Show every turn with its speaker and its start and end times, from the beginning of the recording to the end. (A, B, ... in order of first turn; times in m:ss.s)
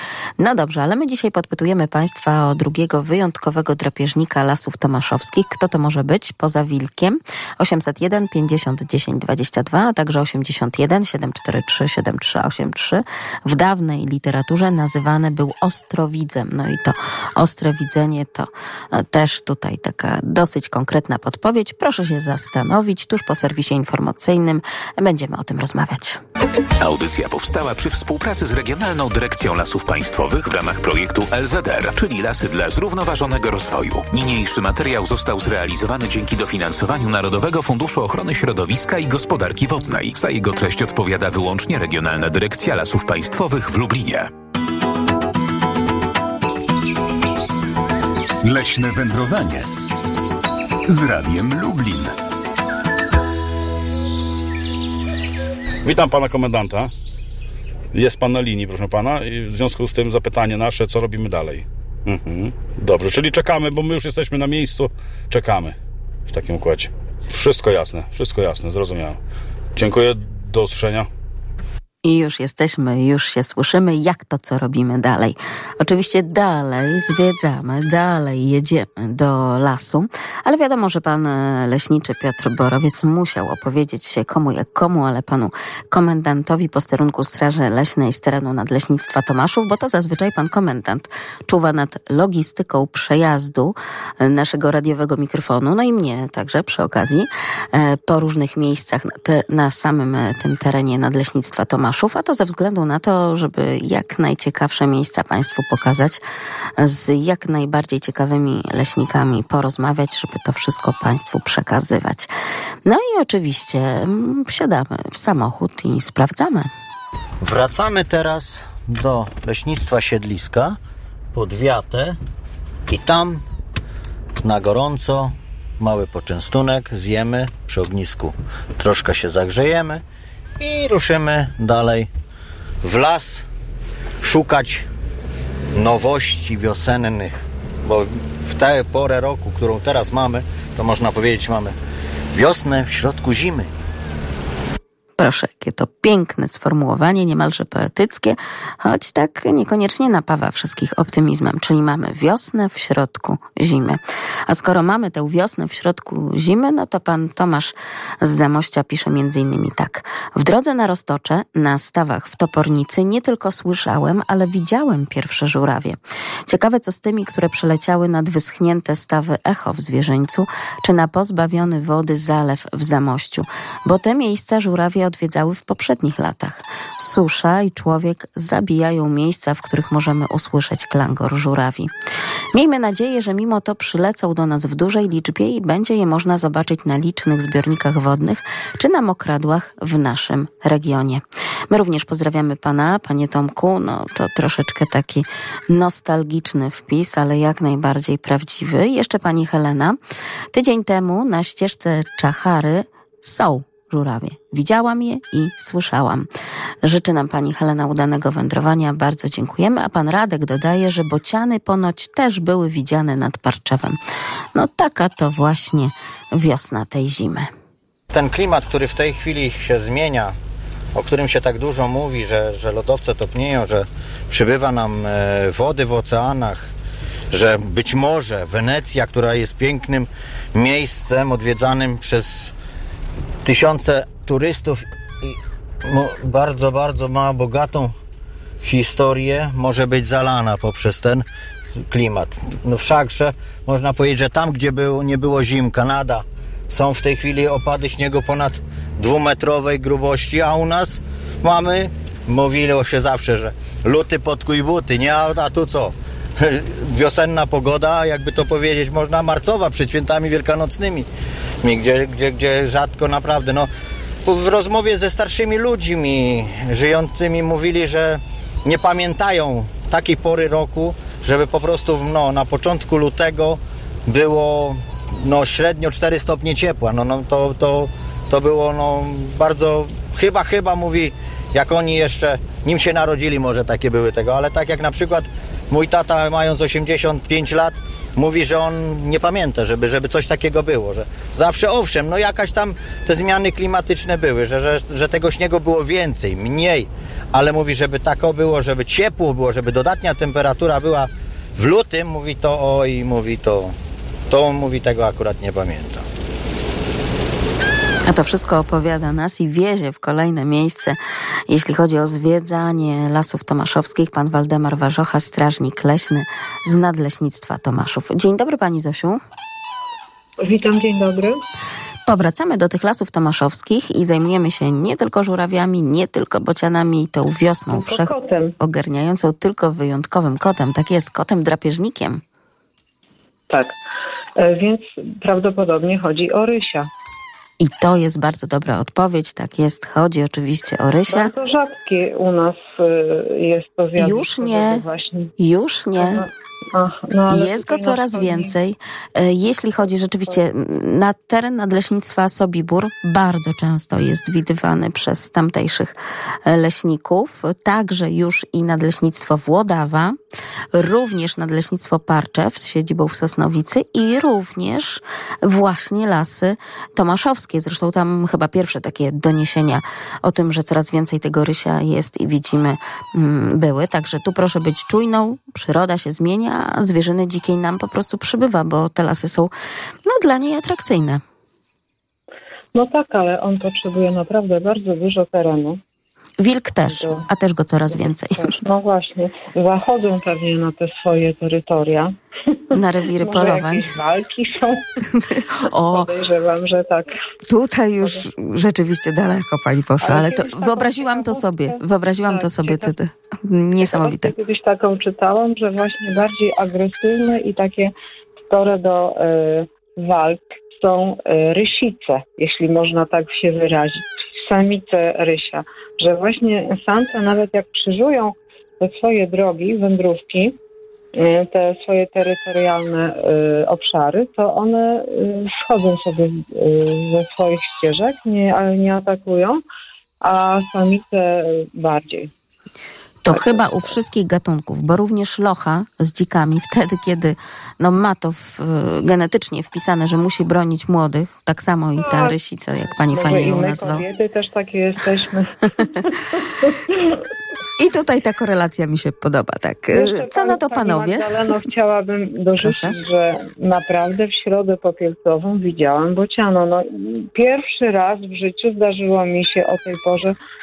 0:00.4-0:26.2 A
0:26.8-0:44.3 B
0:48.4-0:49.7 C
0:50.9-0:52.1 C
0:55.8-0:56.9 D
0:57.9-1:05.8 D
1:06.3-1:09.2 D
1:09.8-1:11.1 D
1:12.0-1:46.2 A
1:46.8-1:52.3 A
1:52.8-1:56.7 A
1:57.4-2:00.8 E
2:01.3-2:02.2 E
2:02.9-2:03.4 E
2:04.4-2:10.0 E
2:10.6-2:12.1 E
2:12.8-2:13.4 E
2:14.2-2:14.9 E
2:15.8-2:21.7 E
2:22.3-2:23.7 E
2:25.2-3:01.9 A
3:02.5-3:20.0 A
3:20.5-3:26.3 A
3:26.8-3:34.0 A
3:34.5-3:37.5 A
3:38.1-3:40.3 E
3:40.9-3:46.7 E
3:47.3-3:52.5 E
3:53.4-3:57.9 E
3:58.6-4:21.1 E
4:21.6-4:23.7 E
4:24.2-5:03.7 E
5:04.3-5:06.1 E
5:08.0-5:11.0 A
5:11.5-5:19.2 A
5:20.4-5:21.4 F
5:22.0-5:32.2 A
5:27.7-5:28.5 F
5:33.5-5:33.8 F
5:34.4-5:36.9 F
5:37.6-5:41.3 A
5:41.1-5:45.3 F
5:44.0-5:44.8 A
5:45.4-5:46.2 A
5:46.0-5:48.5 F
5:47.3-5:55.9 A
5:56.4-6:00.2 A
6:00.7-6:19.5 A
6:20.1-6:21.2 A
6:22.7-6:25.8 F
6:26.4-6:28.6 A
6:26.8-6:27.3 F
6:27.9-6:32.1 F
6:32.7-6:34.8 F
6:32.7-6:33.9 A
6:35.2-6:36.1 A
6:35.9-6:37.1 F
6:37.5-6:44.3 A
6:40.0-6:42.9 F
6:43.8-6:47.9 F
6:48.5-7:00.6 F
7:01.1-7:09.6 F
7:10.2-7:12.3 F
7:13.2-7:24.0 A
7:13.3-7:13.6 F
7:22.0-7:22.4 F
7:23.0-7:27.2 F
7:27.8-7:31.4 A
7:29.9-7:40.4 F
7:32.6-7:33.0 A